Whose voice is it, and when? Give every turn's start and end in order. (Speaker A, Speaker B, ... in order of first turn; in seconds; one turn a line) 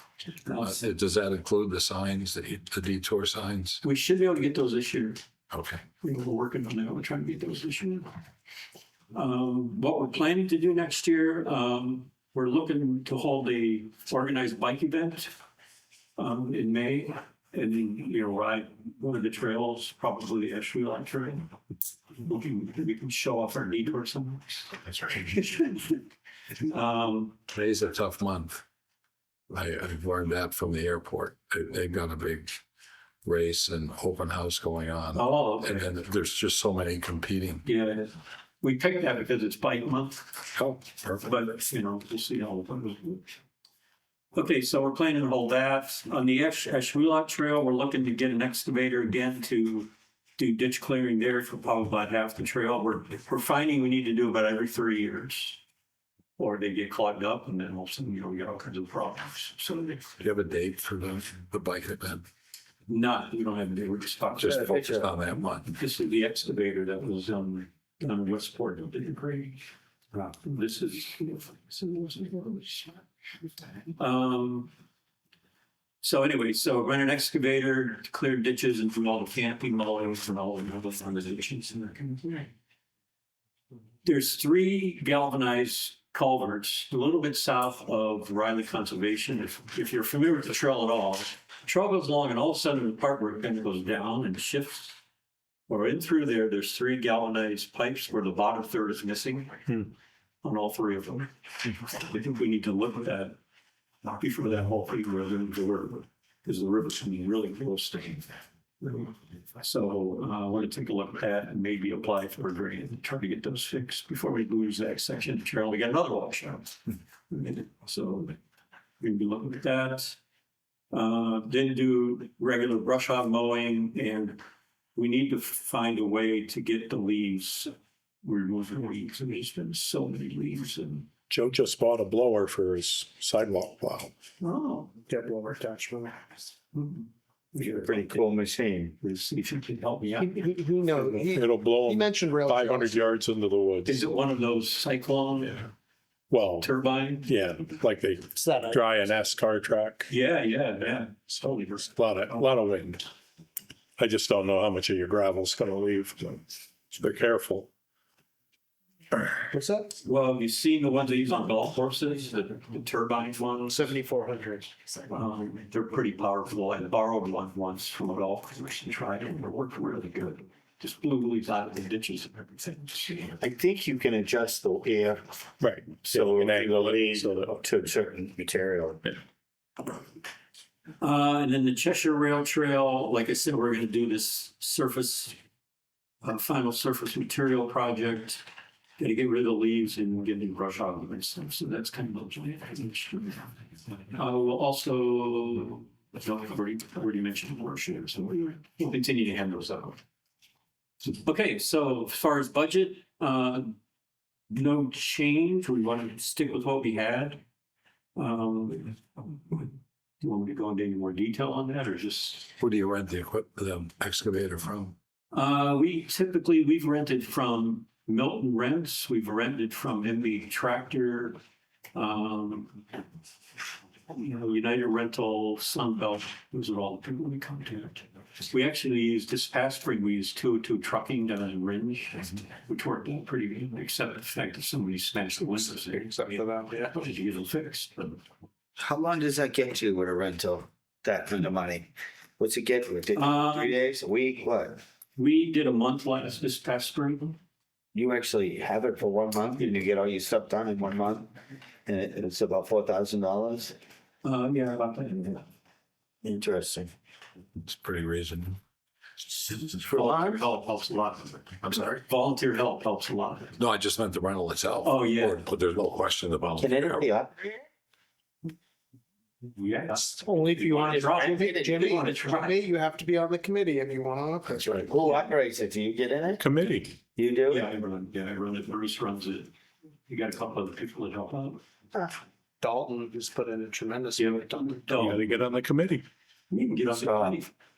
Speaker A: 0.4-0.8
Speaker B: 0.6-3.8
Speaker A: 3.8-5.2
Speaker B: 5.5-5.8
Speaker A: 6.0-8.1
Speaker A: 9.1-15.3
Speaker A: 16.2-21.5
Speaker A: 22.1-26.0
Speaker A: 26.6-27.4
Speaker B: 27.5-28.6
Speaker B: 29.5-32.6
Speaker B: 33.2-37.6
Speaker A: 35.1-35.9
Speaker A: 37.6-40.5
Speaker B: 40.5-41.3
Speaker A: 41.2-43.2
Speaker A: 44.3-55.6
Speaker A: 56.4-60.0
Speaker B: 60.2-62.2
Speaker A: 62.9-65.1
Speaker B: 64.4-65.7
Speaker C: 64.4-65.1
Speaker A: 65.6-69.6
Speaker A: 70.4-73.0
Speaker A: 74.0-74.7
Speaker A: 76.0-82.5
Speaker A: 84.0-95.0
Speaker A: 95.7-99.8
Speaker A: 100.4-103.4
Speaker A: 104.1-116.8
Speaker A: 117.3-118.4
Speaker A: 119.0-120.2
Speaker A: 120.9-124.4
Speaker A: 125.0-127.7
Speaker A: 128.2-131.1
Speaker D: 131.3-134.1
Speaker A: 134.4-134.9
Speaker E: 135.1-136.2
Speaker A: 136.7-138.2
Speaker C: 137.6-139.0
Speaker A: 139.0-140.3
Speaker E: 140.2-143.0
Speaker D: 141.0-143.9
Speaker A: 143.8-145.7
Speaker D: 146.3-146.7
Speaker A: 146.6-147.3
Speaker D: 147.2-150.1
Speaker E: 148.4-148.8
Speaker A: 150.1-151.9
Speaker D: 151.9-153.1
Speaker D: 154.0-157.7
Speaker E: 159.5-159.9
Speaker A: 160.0-163.9
Speaker E: 163.7-164.7
Speaker A: 165.1-173.4
Speaker C: 173.4-175.3
Speaker D: 175.6-177.5
Speaker C: 176.1-179.0
Speaker A: 181.0-185.4
Speaker A: 186.2-188.4
Speaker A: 189.0-193.5
Speaker A: 194.0-200.0
Speaker A: 201.0-203.8
Speaker A: 204.5-207.4
Speaker A: 208.2-212.5
Speaker B: 212.6-214.9
Speaker A: 215.3-221.4
Speaker A: 221.9-222.8
Speaker A: 224.1-238.2
Speaker E: 235.8-236.9
Speaker C: 238.8-244.8
Speaker A: 243.1-243.9
Speaker A: 245.2-247.4
Speaker C: 247.9-251.3
Speaker C: 251.9-253.8
Speaker A: 254.2-255.4
Speaker C: 256.2-256.9
Speaker B: 257.6-258.6
Speaker C: 259.5-260.5
Speaker A: 259.9-263.6
Speaker B: 261.6-262.0
Speaker B: 263.6-267.1
Speaker A: 264.8-265.5
Speaker C: 266.6-267.6
Speaker A: 269.5-272.7
Speaker E: 270.0-274.8
Speaker C: 270.8-272.1
Speaker B: 274.5-274.9
Speaker C: 274.8-276.4
Speaker D: 276.4-277.0
Speaker C: 277.1-277.7
Speaker A: 277.5-279.5
Speaker A: 280.1-281.6
Speaker E: 282.6-284.9
Speaker A: 284.2-285.3
Speaker D: 285.0-286.0
Speaker A: 286.5-287.5
Speaker C: 286.9-287.4